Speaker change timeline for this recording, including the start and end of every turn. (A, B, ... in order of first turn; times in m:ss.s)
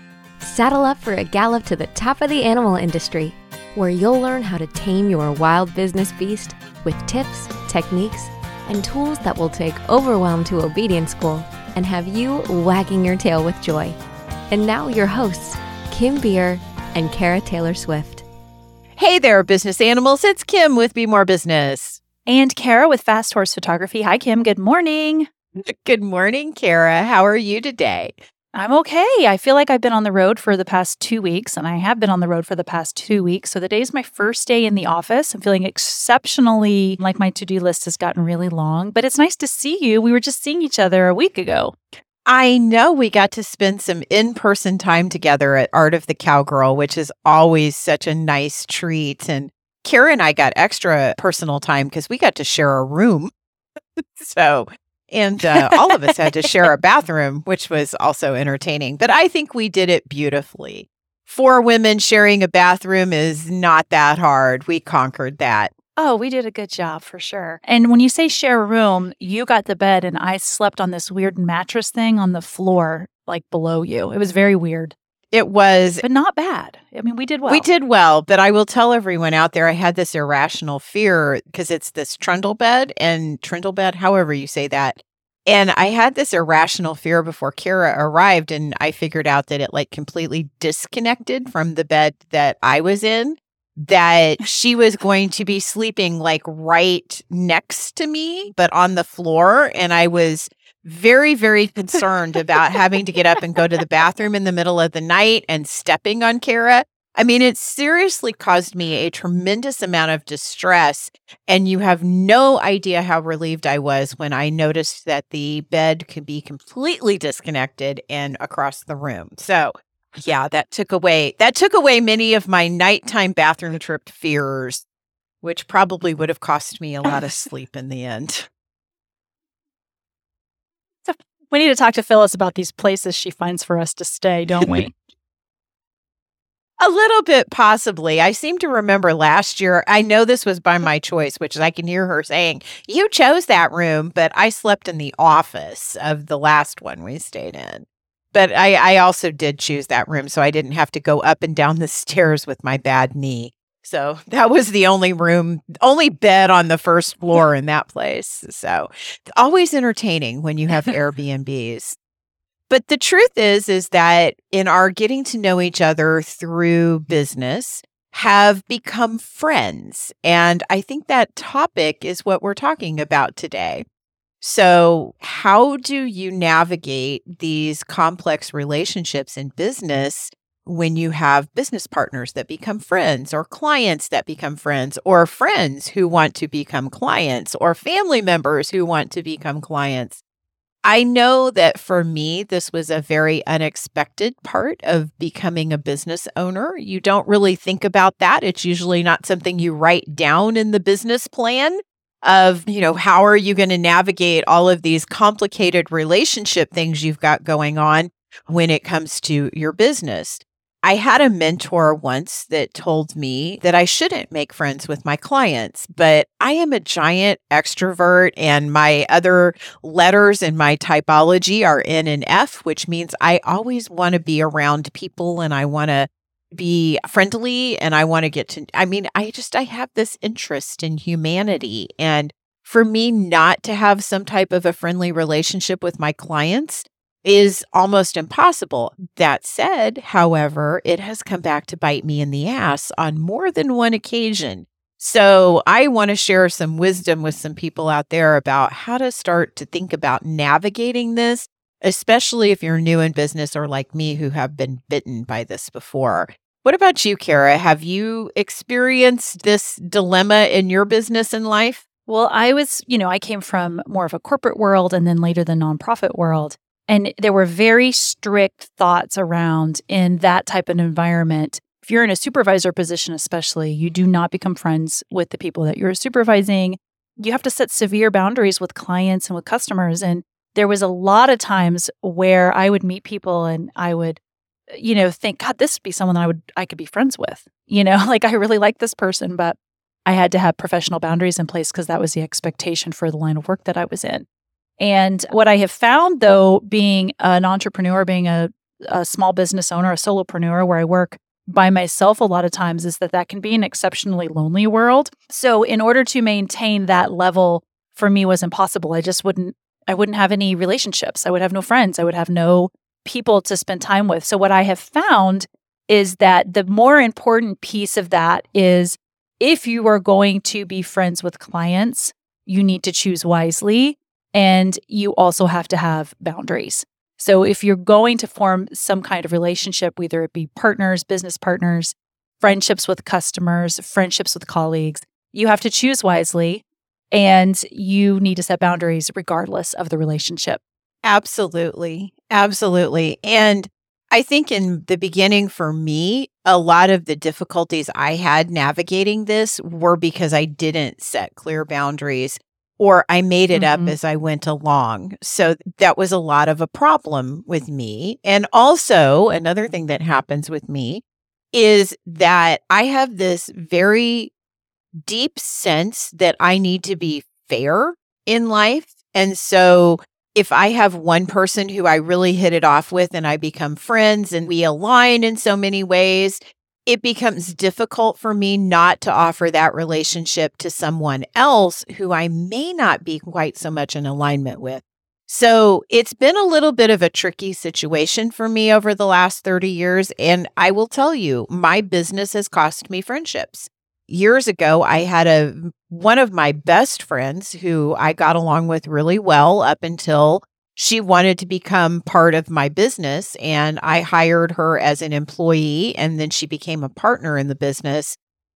0:00.4-0:14.0 A
0:14.5-0:18.2 A
0:19.0-0:22.0 B
0:22.3-0:25.3 C
0:25.6-0:28.2 B
0:28.5-0:41.8 C
0:42.3-0:53.3 B
0:54.0-1:05.7 B
0:55.5-0:56.5 C
1:06.0-1:15.0 C
1:15.3-1:16.0 B
1:16.0-1:17.7 C
1:17.5-2:04.8 B
2:05.4-2:08.5 B
2:11.0-2:14.9 C
2:16.8-2:42.0 B
2:42.7-2:53.8 B
2:54.4-3:10.2 B
3:10.8-4:21.8 B
4:22.1-4:44.2 C
4:44.7-4:54.3 C
4:54.8-5:40.6 C
5:41.0-6:04.3 B
5:53.5-5:54.0 C
6:05.0-6:48.2 B